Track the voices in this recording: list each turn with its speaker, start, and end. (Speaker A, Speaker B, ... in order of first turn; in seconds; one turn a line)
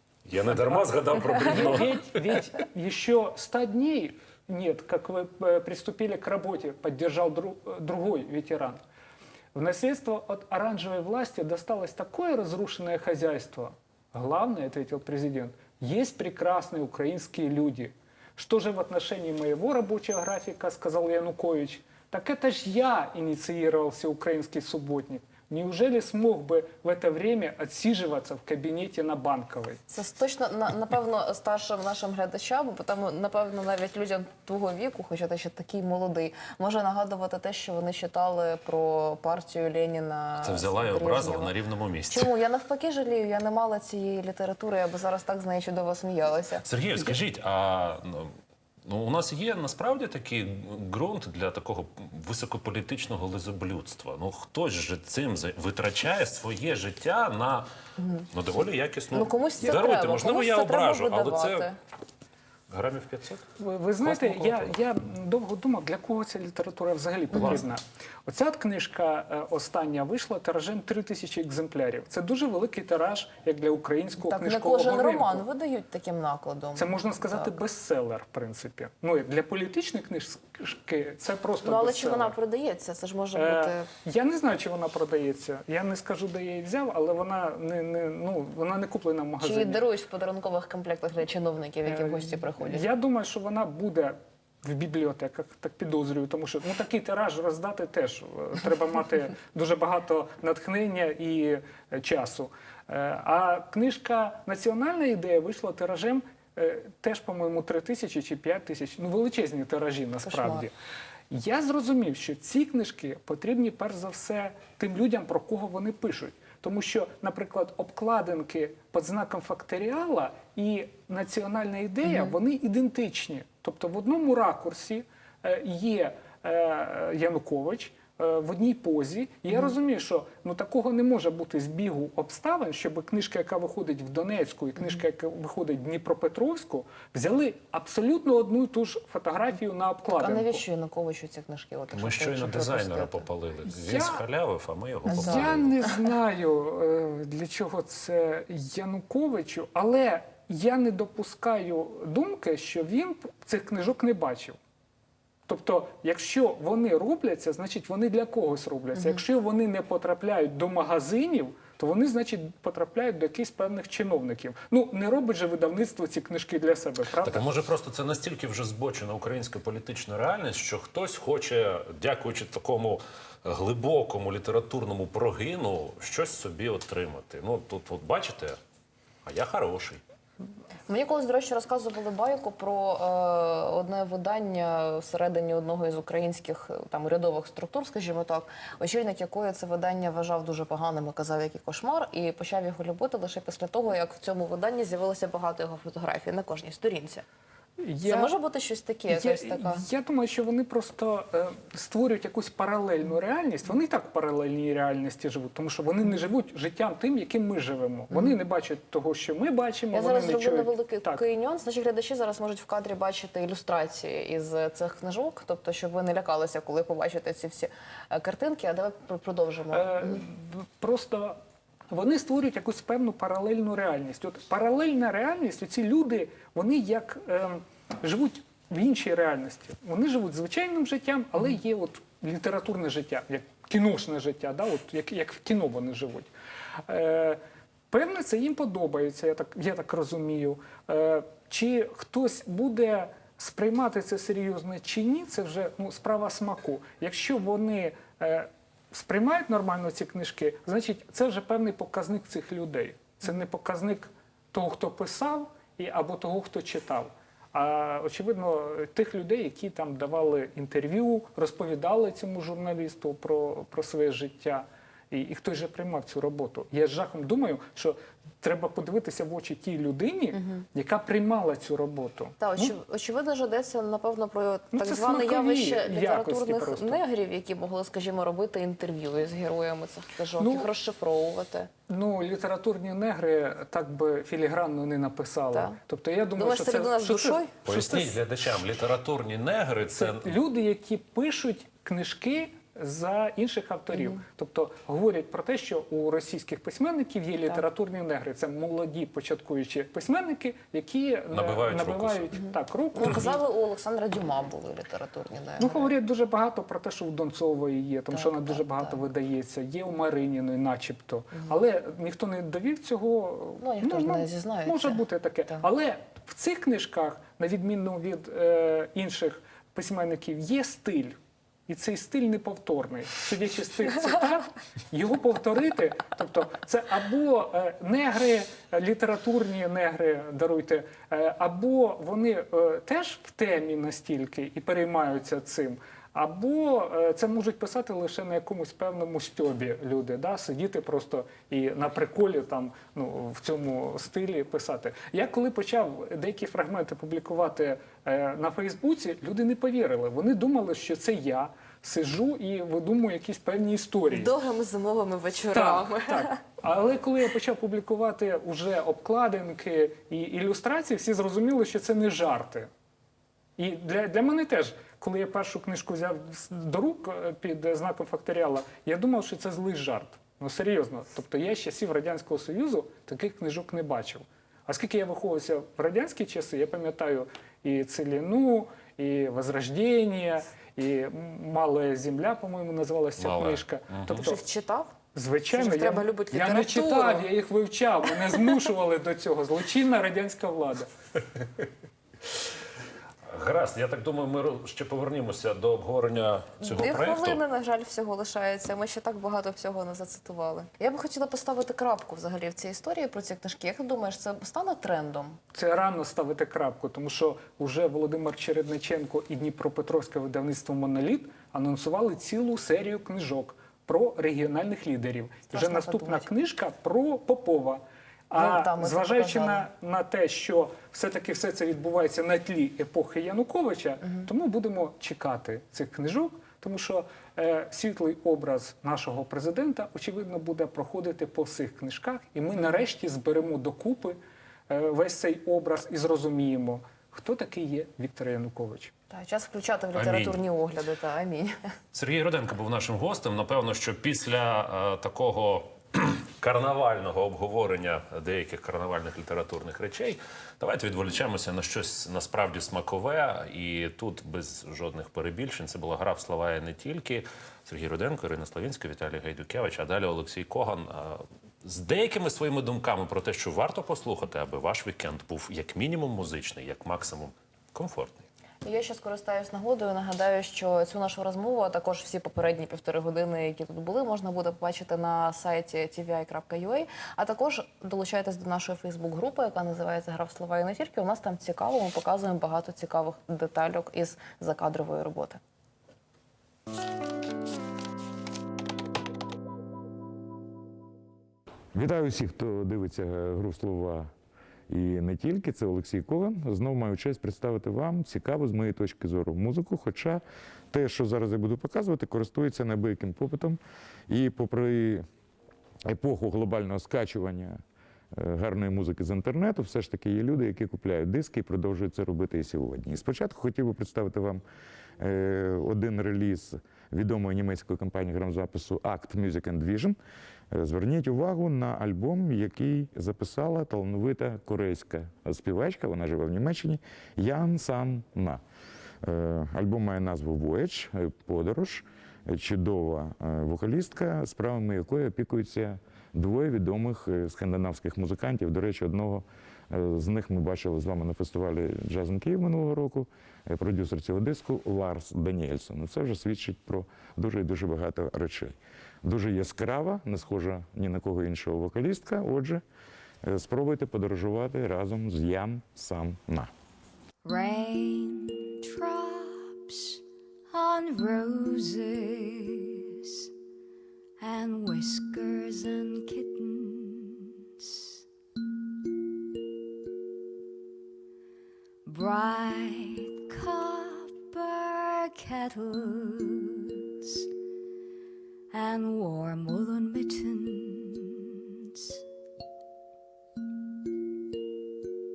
Speaker A: 0.3-1.9
Speaker B: 1.4-8.8
Speaker B: 9.5-29.8
Speaker C: 29.9-41.5
Speaker A: 40.4-42.3
Speaker C: 42.1-46.6
Speaker A: 46.6-48.3
Speaker A: 48.9-57.7
Speaker C: 58.0-58.3
Speaker A: 58.3-61.7
Speaker C: 59.1-61.8
Speaker A: 62.7-63.5
Speaker B: 63.6-75.5
Speaker A: 64.0-64.7
Speaker C: 67.3-67.6
Speaker C: 74.2-77.6
Speaker B: 76.8-82.4
Speaker C: 81.6-83.9
Speaker B: 83.3-89.8
Speaker C: 89.4-92.9
Speaker B: 91.9-110.7
Speaker C: 110.2-110.7
Speaker B: 111.3-140.6
Speaker C: 122.0-122.4
Speaker C: 140.1-143.3
Speaker A: 141.9-145.7
Speaker B: 143.7-144.2
Speaker C: 145.1-145.9
Speaker B: 145.1-154.6
Speaker B: 155.5-167.6
Speaker A: 167.2-178.6
Speaker A: 179.2-180.0
Speaker C: 180.9-197.2
Speaker B: 197.8-198.3
Speaker C: 198.1-199.8
Speaker B: 199.1-211.2
Speaker C: 208.1-208.4
Speaker C: 209.9-220.2
Speaker B: 219.7-221.4
Speaker B: 221.9-236.3
Speaker B: 236.9-272.7
Speaker C: 270.3-270.6
Speaker C: 272.4-281.7
Speaker B: 274.7-277.0
Speaker B: 280.4-280.7
Speaker B: 281.9-288.2
Speaker C: 285.5-285.8
Speaker C: 286.4-287.6
Speaker A: 287.6-290.3
Speaker B: 289.9-303.4
Speaker C: 293.9-294.2
Speaker A: 301.3-302.4
Speaker C: 302.9-305.9
Speaker B: 305.6-354.3
Speaker C: 308.1-309.0
Speaker C: 313.6-315.7
Speaker C: 354.1-356.4
Speaker B: 355.5-362.7
Speaker B: 363.6-384.4
Speaker A: 383.2-384.2
Speaker C: 384.1-384.9
Speaker B: 385.1-390.9
Speaker C: 385.5-387.3
Speaker A: 393.3-397.4
Speaker C: 396.6-405.4
Speaker B: 405.5-434.2
Speaker C: 415.5-416.3
Speaker C: 418.4-419.7
Speaker B: 434.7-438.9
Speaker C: 439.1-441.6
Speaker A: 439.9-440.4
Speaker A: 441.9-468.3
Speaker C: 468.6-485.4
Speaker D: 491.7-494.1
Speaker D: 494.7-505.0
Speaker D: 505.9-507.6
Speaker D: 508.1-514.4
Speaker D: 515.0-520.0
Speaker D: 520.5-528.4
Speaker D: 529.0-552.6
Speaker D: 553.2-556.5
Speaker E: 557.2-563.3
Speaker E: 564.2-568.0
Speaker E: 571.9-577.3
Speaker E: 578.5-582.0